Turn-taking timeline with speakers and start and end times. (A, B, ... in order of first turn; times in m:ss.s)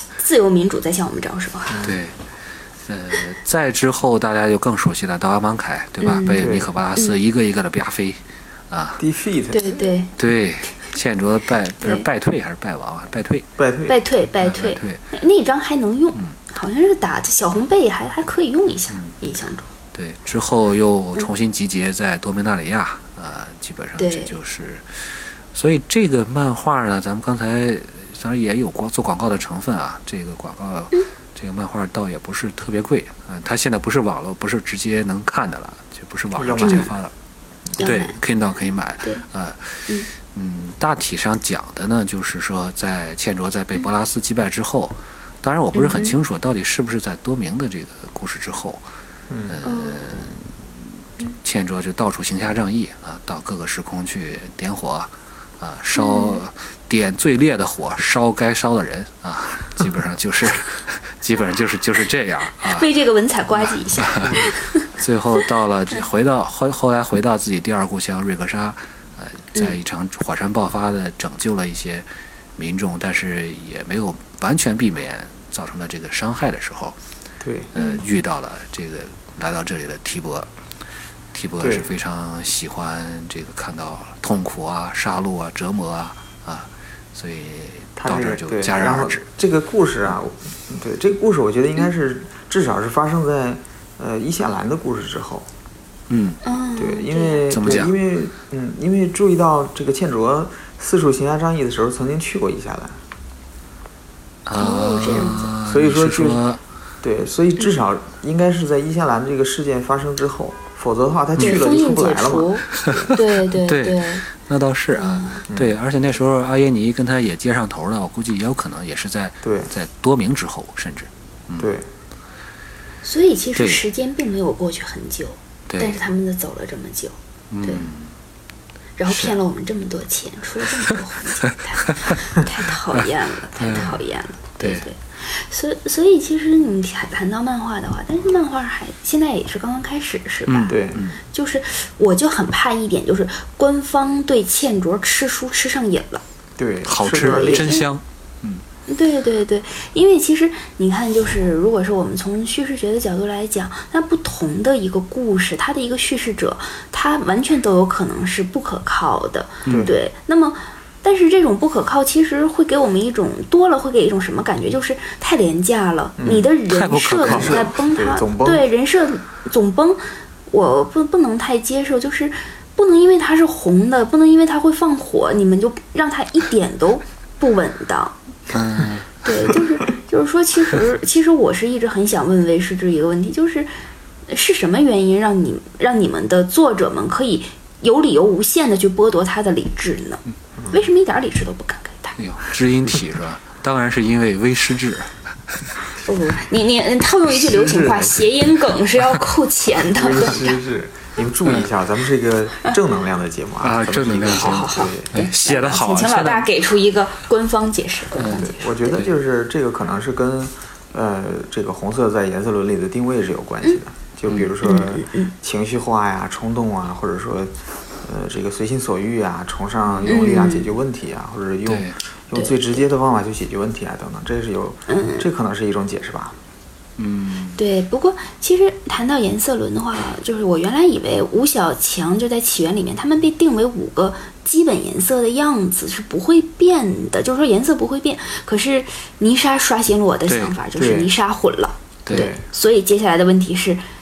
0:00.2-0:01.9 A
0:01.8-0:02.2 B
0:02.9-0:09.0 B
0:06.0-0:07.2 A
0:06.4-0:06.7 C
0:09.0-0:09.8 C
0:09.5-0:10.1 A
0:10.2-0:13.5 B
0:13.6-0:14.0 C
0:13.9-0:19.7 A
0:14.4-0:15.0 B
0:18.9-0:19.2 B
0:19.9-0:37.1 B
0:24.0-0:24.3 A
0:36.4-0:36.9 C
0:36.6-0:36.9 A
0:37.8-0:38.2 A
0:37.8-0:48.8 B
0:45.7-0:46.2 A
0:49.3-0:49.6 C
0:49.5-1:02.9 B
0:49.6-0:50.0 A
0:56.0-0:56.4 A
1:02.6-1:04.9 A
1:03.6-1:12.0 B
1:12.6-1:17.0 B
1:17.4-1:17.7 C
1:17.7-1:20.5 B
1:17.8-1:18.0 A
1:21.3-1:29.3 B
1:21.6-1:21.9 C
1:28.0-1:35.5 C
1:36.1-1:36.4 B
1:36.4-1:37.5 A
1:36.8-1:43.0 C
1:37.5-1:37.9 B
1:44.5-1:46.6 B
1:44.6-1:45.5 A
1:45.6-1:46.4 C
1:47.0-1:53.1 C
1:51.4-1:54.2 A
1:52.8-2:01.7 B
1:54.9-1:55.4 A
1:55.5-1:55.8 C
1:59.4-1:59.7 C
2:01.6-2:01.9 C
2:03.0-2:07.9 A
2:03.6-2:03.8 B
2:05.7-2:06.0 B
2:07.5-2:08.1 B
2:09.0-2:26.2 A
2:09.1-2:09.4 B
2:11.5-2:12.2 B
2:13.6-2:14.0 B
2:14.6-2:14.9 B
2:20.5-2:21.2 B
2:20.7-2:21.0 C
2:26.6-2:27.8 C
2:26.8-2:28.6 B
2:27.1-2:27.9 A
2:28.9-2:58.2 A
2:39.6-2:39.9 B
2:39.7-2:39.9 C
2:46.2-2:46.5 C
2:46.7-2:47.6 B
2:47.2-2:48.6 C
2:58.5-2:59.6 B
2:59.2-3:03.7 A
3:04.3-3:12.2 A
3:12.2-3:15.1 B
3:16.0-3:20.6 A
3:17.3-3:18.4 C
3:19.8-3:25.1 C
3:23.6-3:26.5 B
3:24.1-3:29.1 A
3:28.2-3:29.1 B
3:28.3-3:46.4 C
3:34.6-3:35.3 A
3:39.9-3:40.3 B
3:40.0-3:40.7 A
3:41.6-3:42.0 B
3:42.3-3:42.6 A
3:44.9-3:45.3 A
3:47.0-3:47.6 B
3:47.6-4:03.8 A
4:00.3-4:00.6 B
4:00.7-4:01.1 C
4:02.1-4:02.4 C